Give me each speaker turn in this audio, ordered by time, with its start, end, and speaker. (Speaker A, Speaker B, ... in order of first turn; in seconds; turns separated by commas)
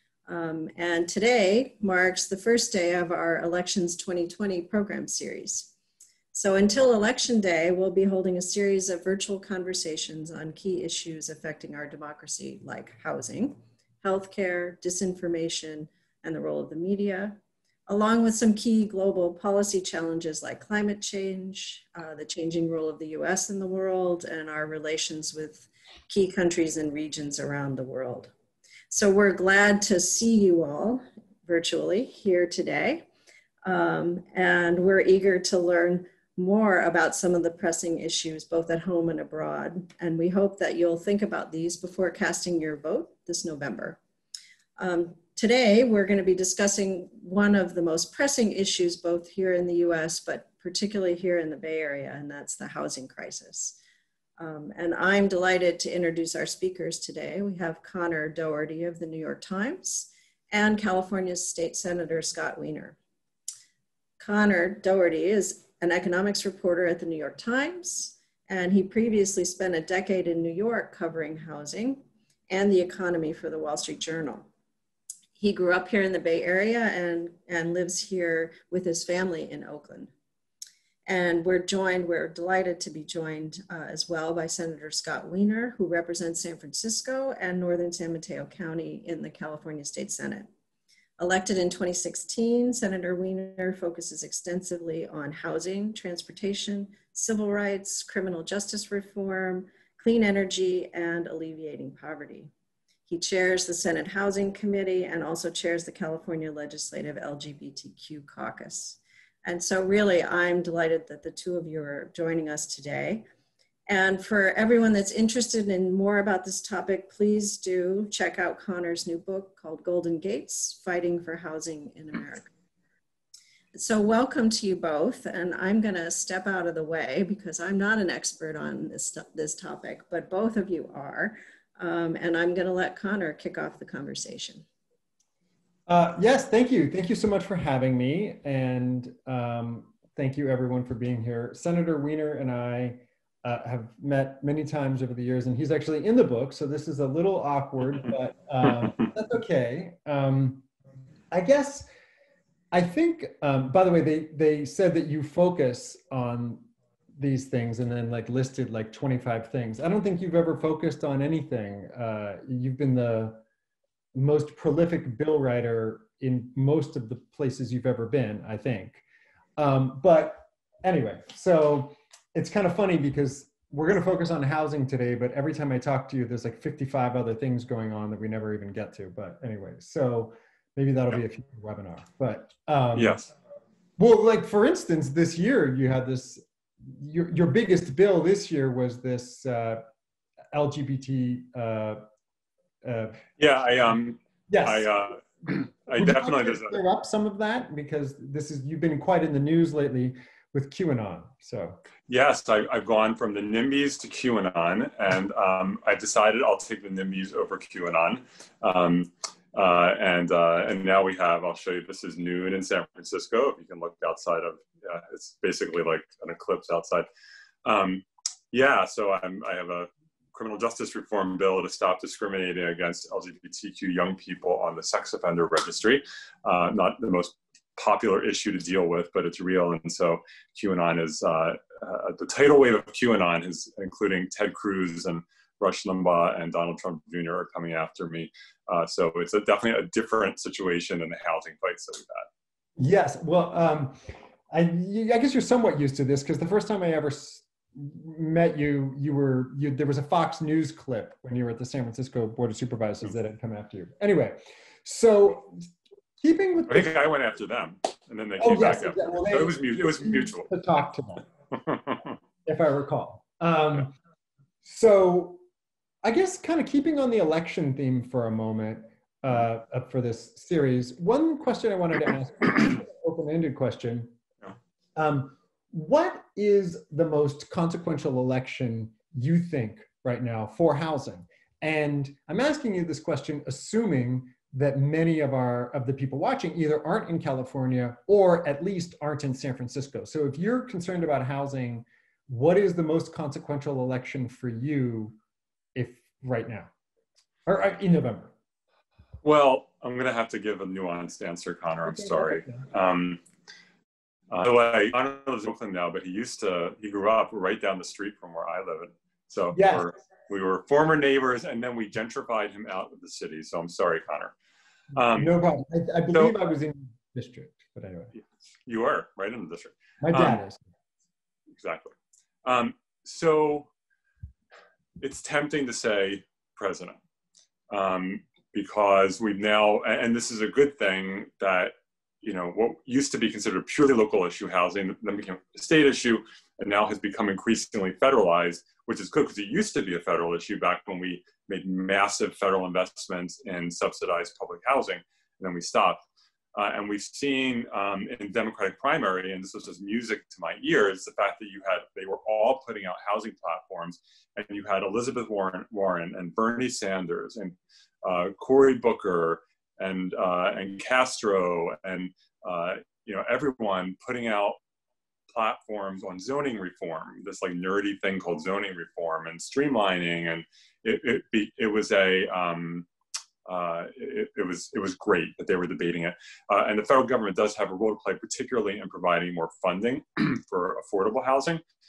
Speaker A: 0.3-5.7, Speaker A: 6.3-28.3, Speaker A: 28.9-33.1, Speaker A: 33.6-44.0, Speaker A: 44.8-53.8, Speaker A: 54.4-63.0, Speaker A: 64.2-74.5, Speaker A: 75.4-80.1, Speaker A: 81.1-90.5, Speaker A: 91.2-102.5, Speaker A: 103.1-113.2, Speaker A: 113.9-122.5, Speaker A: 123.7-134.6, Speaker B: 135.9-150.6, Speaker B: 151.3-151.8, Speaker B: 152.7-163.4, Speaker B: 164.1-169.0, Speaker B: 169.6-183.2, Speaker C: 182.9-183.3, Speaker B: 184.0-189.8, Speaker B: 190.5-192.0, Speaker B: 192.8-193.2, Speaker C: 193.4-196.8, Speaker B: 194.5-194.9, Speaker B: 195.9-201.8, Speaker C: 202.1-217.1, Speaker C: 217.6-242.3, Speaker B: 242.8-255.6, Speaker B: 256.2-256.9, Speaker C: 256.7-260.5, Speaker B: 258.4-261.2, Speaker C: 261.5-262.1, Speaker B: 262.4-263.9, Speaker B: 264.6-265.4, Speaker B: 266.0-274.1, Speaker B: 274.9-295.2, Speaker B: 295.7-296.7, Speaker B: 297.4-298.3, Speaker C: 299.2-303.2, Speaker B: 301.8-302.6, Speaker C: 304.3-314.3, Speaker B: 309.5-309.9, Speaker C: 314.9-315.3, Speaker B: 315.1-318.1, Speaker C: 318.6-320.4, Speaker B: 320.0-320.6, Speaker C: 321.6-323.7, Speaker C: 325.0-327.0, Speaker C: 327.7-346.0, Speaker C: 346.5-364.6, Speaker C: 365.3-372.9, Speaker C: 373.4-381.6